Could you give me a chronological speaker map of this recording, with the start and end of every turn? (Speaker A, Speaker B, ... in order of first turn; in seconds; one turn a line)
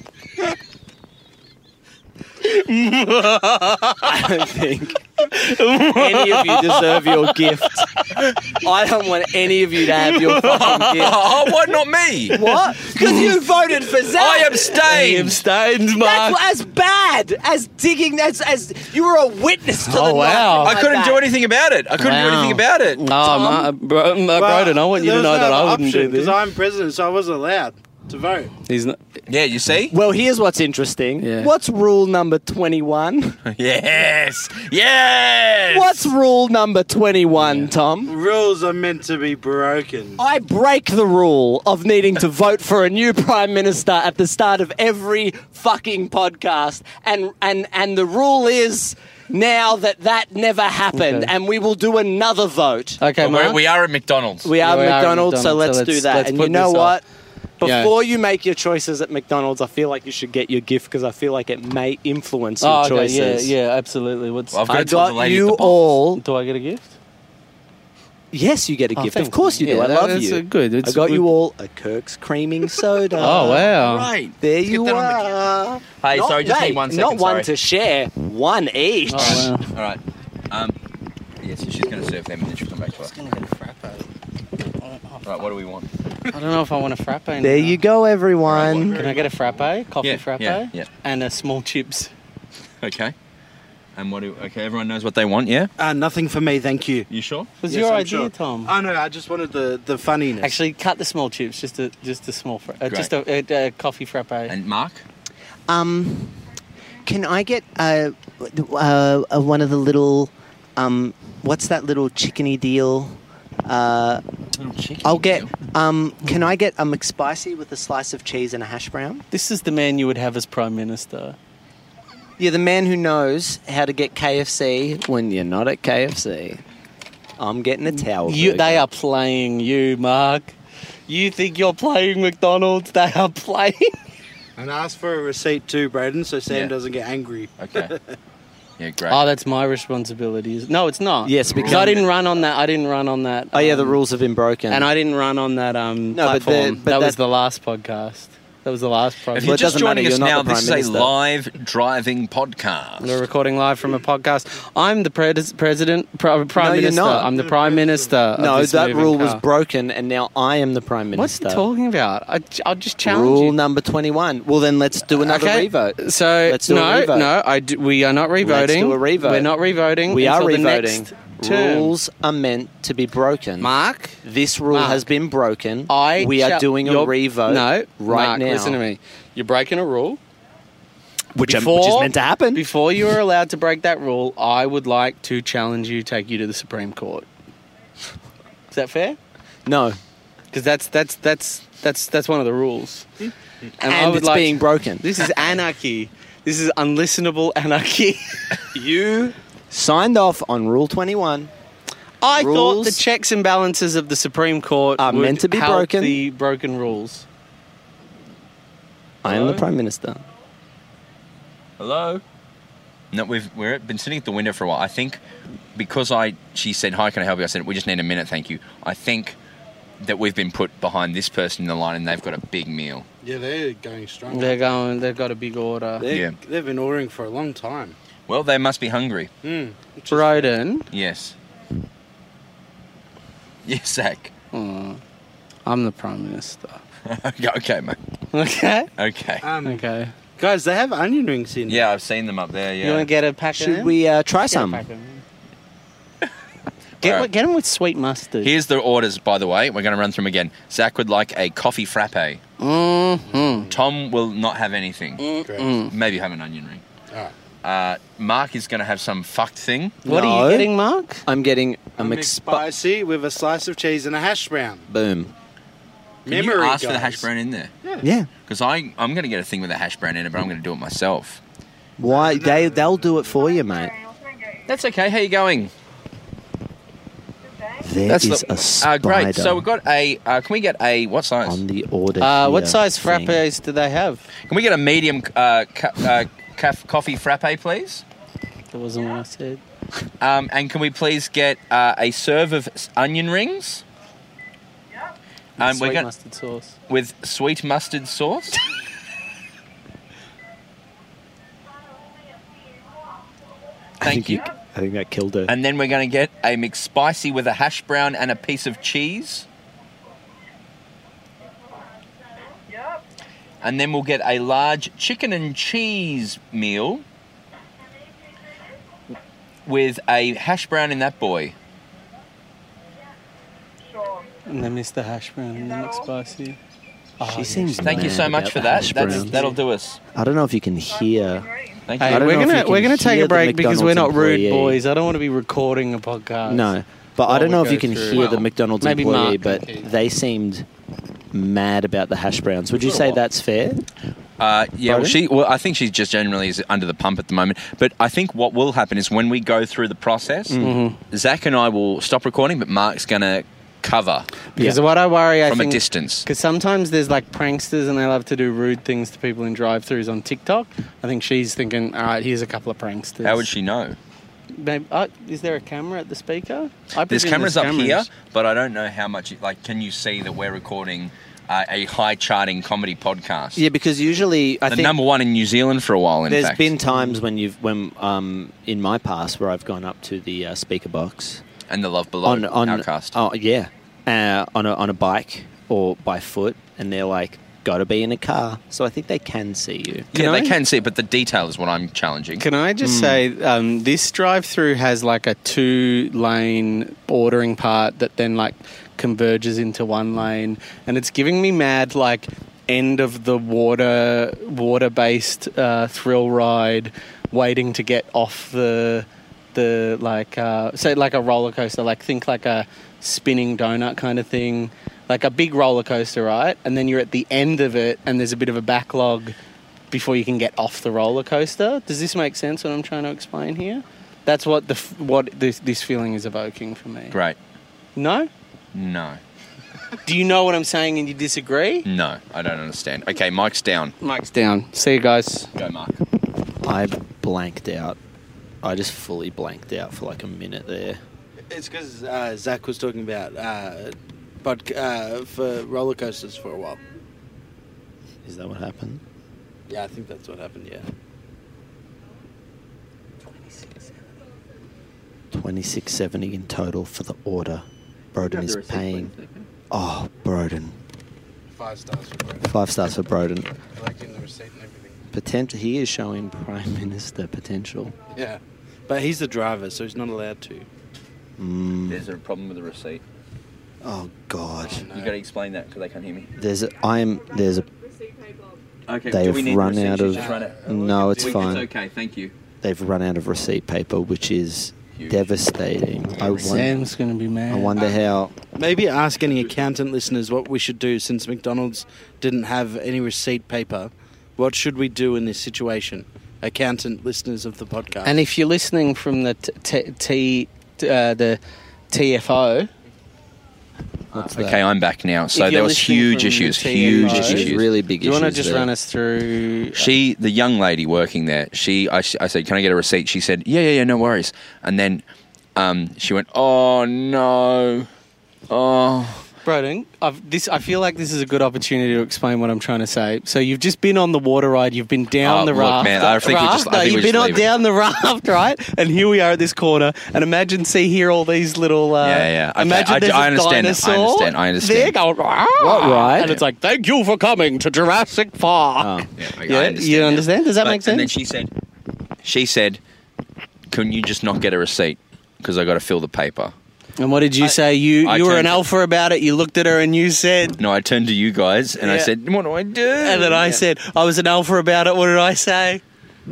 Speaker A: 2.4-4.3
Speaker B: 4.0-5.0
Speaker A: 5.2-8.3
Speaker B: 5.7-11.3
Speaker A: 9.9-11.3
Speaker C: 10.5-12.4
Speaker B: 12.3-14.9
Speaker A: 12.3-13.3
Speaker C: 14.0-15.4
Speaker A: 14.7-16.4
Speaker B: 16.0-21.2
Speaker A: 19.8-20.8
Speaker C: 20.6-23.1
Speaker A: 22.0-26.4
Speaker D: 24.3-28.5
Speaker A: 28.7-29.0
Speaker C: 29.3-29.9
Speaker B: 29.9-33.4
Speaker A: 31.2-31.5
Speaker C: 33.5-36.1
Speaker B: 35.7-38.1
Speaker A: 37.4-37.7
Speaker D: 38.1-40.2
Speaker B: 40.2-53.0
Speaker A: 50.9-51.3
Speaker A: 53.0-53.6
Speaker C: 53.2-54.5
Speaker B: 54.4-57.0
Speaker A: 54.6-57.0
Speaker B: 57.6-63.5
Speaker A: 57.6-57.9
Speaker A: 62.6-64.7
Speaker C: 64.5-65.8
Speaker B: 64.7-66.2
Speaker A: 66.2-67.0
Speaker B: 68.3-73.7
Speaker A: 69.0-71.3
Speaker A: 73.2-74.1
Speaker C: 73.2-74.4
Speaker B: 74.4-79.5
Speaker C: 76.0-77.5
Speaker A: 79.1-79.7
Speaker C: 79.2-80.8
Speaker C: 81.4-83.1
Speaker A: 83.0-84.1
Speaker A: 84.8-85.2
Speaker C: 85.2-85.9
Speaker A: 86.3-87.8
Speaker B: 87.4-89.0
Speaker C: 88.5-89.0
Speaker D: 88.7-89.6
Speaker A: 89.0-92.1
Speaker C: 90.0-90.9
Speaker C: 92.8-93.2
Speaker C: 94.0-95.7
Speaker D: 95.8-97.1
Speaker C: 97.1-97.5
Speaker A: 97.6-98.7
Speaker D: 97.7-100.6
Speaker A: 100.4-104.5
Speaker C: 104.5-105.0
Speaker B: 105.7-106.4
Speaker B: 107.0-114.2
Speaker C: 114.5-115.5
Speaker B: 115.0-119.2
Speaker A: 119.3-121.4
Speaker B: 122.4-126.6
Speaker B: 127.4-128.8
Speaker A: 127.9-130.6
Speaker A: 131.1-133.9
Speaker D: 134.6-138.0
Speaker C: 137.6-137.9
Speaker C: 138.8-139.2
Speaker A: 139.1-144.0
Speaker B: 141.2-142.1
Speaker C: 141.5-142.1
Speaker B: 143.5-144.9
Speaker A: 144.7-149.6
Speaker B: 146.1-147.2
Speaker C: 149.3-153.2
Speaker B: 149.4-151.1
Speaker A: 153.0-159.4
Speaker B: 156.6-157.3
Speaker D: 157.3-158.2
Speaker B: 158.4-161.6
Speaker A: 161.2-163.6
Speaker B: 163.0-167.3
Speaker A: 165.1-171.9
Speaker B: 168.4-169.5
Speaker B: 170.1-173.7
Speaker A: 173.6-175.0
Speaker B: 174.2-178.8
Speaker A: 175.9-180.2
Speaker B: 181.3-182.7
Speaker A: 181.4-187.3
Speaker A: 188.7-189.2
Speaker B: 189.7-190.0
Speaker A: 190.5-193.1
Speaker A: 193.8-198.5
Speaker B: 193.8-195.2
Speaker B: 198.7-201.5
Speaker A: 202.2-207.3
Speaker B: 202.3-203.0
Speaker B: 205.0-206.2
Speaker B: 209.2-210.2
Speaker C: 211.8-212.2
Speaker C: 213.1-215.2
Speaker C: 215.8-219.4
Speaker C: 220.0-223.1
Speaker D: 223.2-224.6
Speaker A: 224.3-226.1
Speaker D: 226.0-228.0
Speaker C: 226.1-226.3
Speaker C: 228.3-229.3
Speaker D: 229.4-230.5
Speaker A: 230.1-230.9
Speaker C: 230.9-231.3
Speaker C: 233.7-234.3
Speaker A: 234.5-235.0
Speaker A: 235.7-236.8
Speaker C: 237.1-238.0
Speaker A: 238.3-238.9
Speaker C: 239.0-239.5
Speaker D: 239.4-239.8
Speaker A: 239.6-240.1
Speaker D: 240.4-241.8
Speaker C: 241.7-243.1
Speaker A: 242.8-245.2
Speaker B: 243.5-244.8
Speaker C: 247.0-247.3
Speaker A: 247.0-248.5
Speaker C: 248.4-252.4
Speaker A: 252.6-253.7
Speaker D: 253.3-253.7
Speaker C: 253.7-255.3
Speaker A: 255.2-255.9
Speaker D: 255.4-255.8
Speaker C: 255.9-256.8
Speaker C: 257.6-260.0
Speaker B: 260.1-260.7
Speaker A: 260.1-261.2
Speaker B: 261.3-262.7
Speaker D: 262.0-264.9
Speaker B: 264.9-265.3
Speaker D: 266.3-267.2
Speaker C: 266.3-267.7
Speaker B: 268.0-268.3
Speaker C: 268.5-271.4
Speaker B: 272.0-274.0
Speaker D: 272.1-273.2
Speaker C: 274.7-275.7
Speaker B: 277.8-279.6
Speaker C: 278.1-281.6
Speaker B: 281.4-283.4
Speaker A: 282.2-284.2
Speaker C: 284.5-288.0
Speaker A: 288.7-289.6
Speaker C: 290.2-293.8
Speaker A: 295.6-296.8
Speaker C: 295.6-296.1
Speaker C: 296.9-298.6
Speaker B: 304.0-305.5
Speaker C: 304.0-304.5
Speaker C: 305.5-309.5
Speaker C: 313.6-317.0
Speaker C: 319.7-321.6
Speaker A: 324.5-326.6
Speaker A: 327.2-328.2
Speaker B: 327.2-329.5
Speaker C: 327.8-330.0
Speaker A: 329.1-329.6
Speaker B: 330.1-334.8
Speaker C: 331.9-332.3
Speaker A: 332.0-336.7
Speaker B: 336.5-340.7
Speaker A: 337.3-339.9
Speaker C: 338.1-338.5
Speaker B: 341.3-343.8
Speaker C: 342.8-343.2
Speaker C: 344.4-354.3
Speaker B: 344.9-345.2
Speaker B: 350.5-350.8
Speaker A: 350.6-351.0
Speaker A: 354.6-363.5
Speaker C: 355.5-356.2
Speaker C: 363.2-364.0
Speaker A: 364.5-368.1
Speaker C: 367.1-373.6
Speaker B: 373.6-375.0
Speaker C: 374.7-376.7
Speaker B: 376.3-381.4
Speaker C: 381.7-383.2
Speaker B: 382.2-390.1
Speaker C: 390.1-392.4
Speaker A: 390.1-390.6
Speaker A: 392.4-419.4
Speaker B: 392.8-393.2
Speaker A: 419.9-427.2
Speaker C: 427.1-427.4
Speaker A: 428.0-428.3
Speaker C: 428.7-429.2
Speaker A: 430.1-431.9
Speaker C: 431.9-433.9
Speaker A: 434.0-435.5
Speaker C: 435.6-436.0
Speaker B: 436.6-438.0
Speaker B: 438.6-441.0
Speaker D: 441.5-446.8
Speaker B: 448.2-449.0
Speaker D: 449.7-450.9
Speaker B: 455.3-459.1
Speaker C: 458.2-459.5
Speaker B: 459.7-460.8
Speaker D: 461.5-462.5
Speaker B: 462.4-463.5
Speaker D: 463.8-465.0
Speaker B: 465.1-467.9
Speaker D: 468.1-470.7
Speaker B: 471.4-472.0
Speaker C: 471.9-473.0
Speaker B: 473.8-474.9
Speaker D: 474.6-475.1
Speaker C: 474.9-476.3
Speaker B: 476.4-477.7
Speaker C: 478.9-482.3
Speaker B: 479.1-481.7
Speaker D: 480.1-481.6
Speaker B: 482.6-486.8
Speaker C: 484.9-485.3
Speaker C: 486.1-486.7
Speaker A: 486.4-487.8
Speaker B: 487.5-488.3
Speaker D: 487.8-488.0
Speaker D: 488.5-498.2
Speaker A: 498.1-501.4
Speaker A: 501.9-502.7
Speaker B: 504.1-504.6
Speaker C: 504.1-507.7
Speaker A: 505.3-509.9
Speaker B: 506.8-508.7
Speaker C: 509.8-515.0
Speaker C: 515.6-517.9
Speaker C: 518.5-519.3
Speaker A: 519.5-541.1
Speaker C: 525.2-527.5
Speaker C: 532.0-535.0
Speaker B: 535.6-536.4
Speaker B: 538.8-539.1
Speaker C: 539.2-541.5
Speaker C: 542.2-542.8
Speaker C: 543.7-546.5
Speaker A: 547.0-550.6
Speaker C: 548.0-548.6
Speaker C: 550.6-553.6
Speaker A: 551.8-552.1
Speaker A: 553.0-555.8